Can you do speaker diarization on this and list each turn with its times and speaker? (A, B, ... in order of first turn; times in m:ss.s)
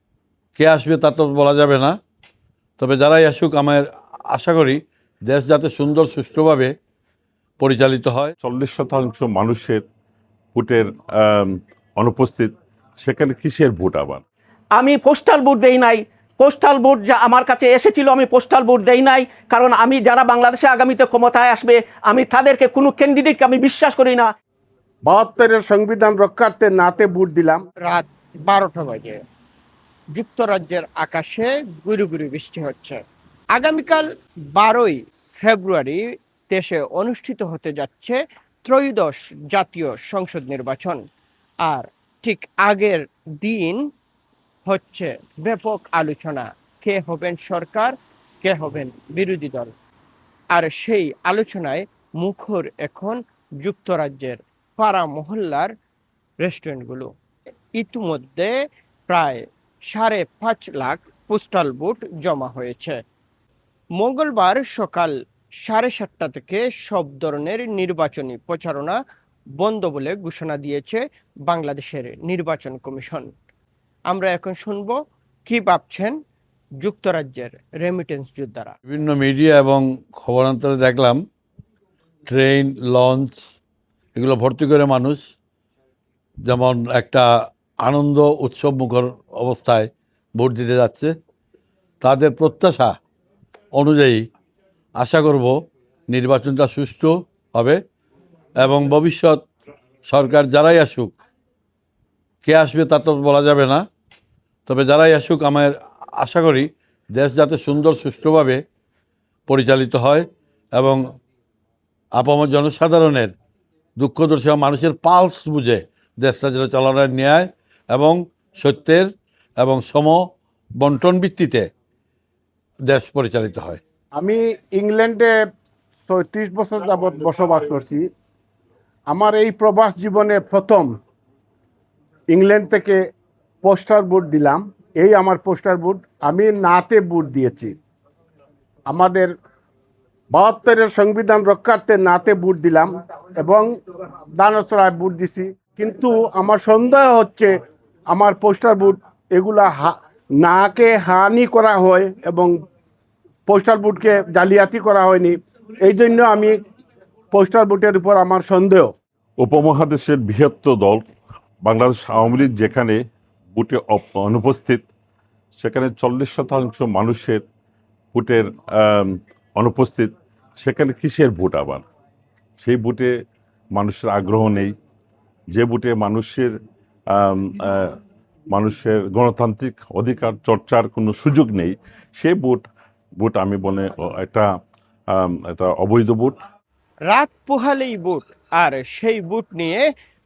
0:00.6-0:02.0 A
0:02.8-0:06.7 A
0:07.6-0:08.4 A
0:08.4-0:09.8 B
0:10.5-0:14.2 B
0:14.7-0:24.3 C
0:25.0-0:27.6 D
0:27.8-0:29.2 E
0:30.1-0:33.0 E
0:33.5-0:41.0 E
0:41.6-0:43.8 E
0:44.6-0:49.7 E
0:50.5-0:55.7 E
0:56.4-0:57.1 E
0:57.8-0:58.6 E
0:59.1-1:03.0 E
1:04.0-1:09.0 E
1:09.6-1:13.3 E
1:14.1-1:16.2 E
1:16.8-1:18.7 E
1:18.9-1:21.2 A
1:22.3-1:23.4 A
1:24.1-1:25.3 A
1:26.4-1:31.1 A
1:32.0-1:33.0 A
1:33.7-1:34.2 A
1:35.0-1:35.6 A
1:36.1-1:37.8 A
1:38.6-1:39.4 A
1:40.1-1:41.1 A
1:42.4-1:43.9 A
1:44.7-1:48.6 A
1:49.5-1:51.0 A
1:52.1-1:53.3 A
1:54.0-1:59.1 A
1:59.6-2:01.7 A
2:02.9-2:03.8 A
2:04.2-2:05.3 D
2:06.1-2:08.0 D
2:09.1-2:10.9 D
2:12.3-2:13.0 D
2:13.6-2:17.7 D
2:18.9-2:19.3 D
2:20.3-2:23.7 D
2:24.4-2:27.5 D
2:28.1-2:32.5 D
2:33.5-2:36.6 D
2:37.3-2:38.9 D
2:39.4-2:41.0 B
2:41.6-2:43.0 B
2:43.5-2:44.8 B
2:45.6-2:47.4 B
2:48.1-2:51.8 B
2:52.6-2:53.1 B
2:53.7-2:54.7 B
2:55.5-2:56.5 B
2:57.1-2:58.0 B
2:58.5-3:02.7 B
3:03.2-3:04.5 B
3:05.1-3:06.4 B
3:07.1-3:09.8 E